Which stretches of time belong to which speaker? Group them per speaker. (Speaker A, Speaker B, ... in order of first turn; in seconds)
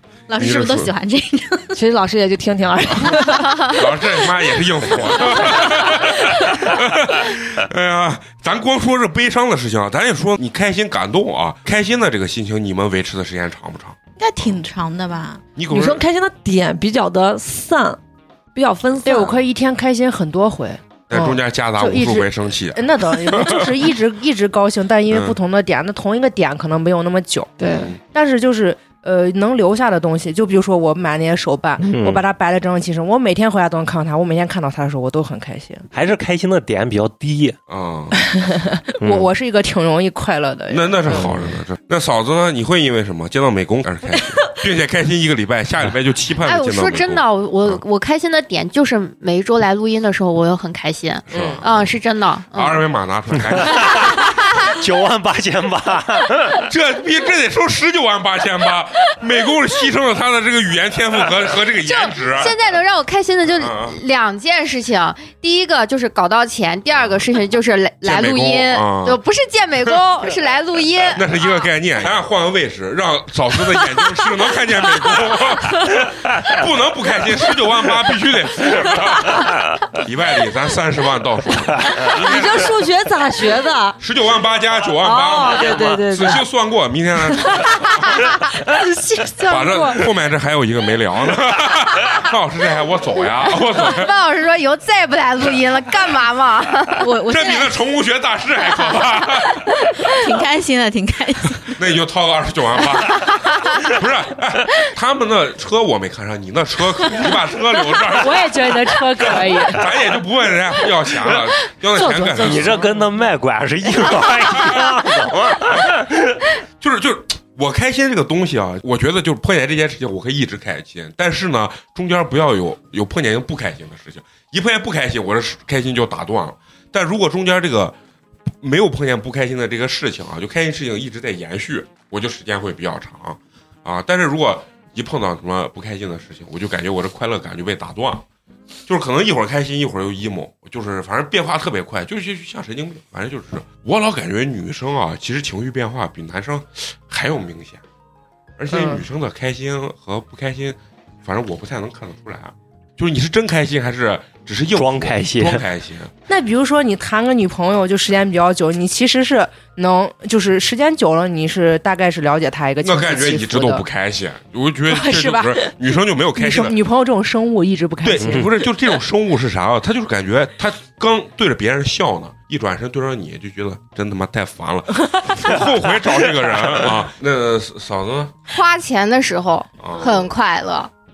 Speaker A: 0.3-1.8, 14.2-15.4, 97.0-97.8, 100.1-101.8
Speaker B: 0.4-0.9, 3.7-14.0, 15.6-16.1, 21.1-23.7, 25.1-25.4, 37.7-38.2, 40.7-47.8, 51.3-51.9, 52.5-54.1, 56.7-62.5, 63.6-64.0, 68.0-69.2, 71.1-82.9, 84.0-88.3, 89.4-94.1, 97.3-99.7, 101.8-112.9, 114.1-114.9, 116.8-128.0, 128.6-138.2, 138.9-147.8, 148.6-156.1, 162.8-166.8, 168.0-178.3, 179.8-180.3
Speaker C: 1.7-3.7, 15.7-18.0, 18.6-19.4, 27.6-27.9, 82.1-84.0, 85.0-86.4
Speaker D: 19.1-35.9, 38.1-41.3, 89.1-90.0, 108.1-109.9, 111.9-113.1, 148.7-149.0, 156.3-163.9, 164.9-165.8, 166.3-168.6
Speaker E: 31.8-32.2, 35.9-37.6, 41.1-41.5, 53.6-56.7, 112.3-116.2, 154.8-155.7
Speaker F: 46.5-52.9, 61.8-71.5, 93.7-97.1, 178.5-180.9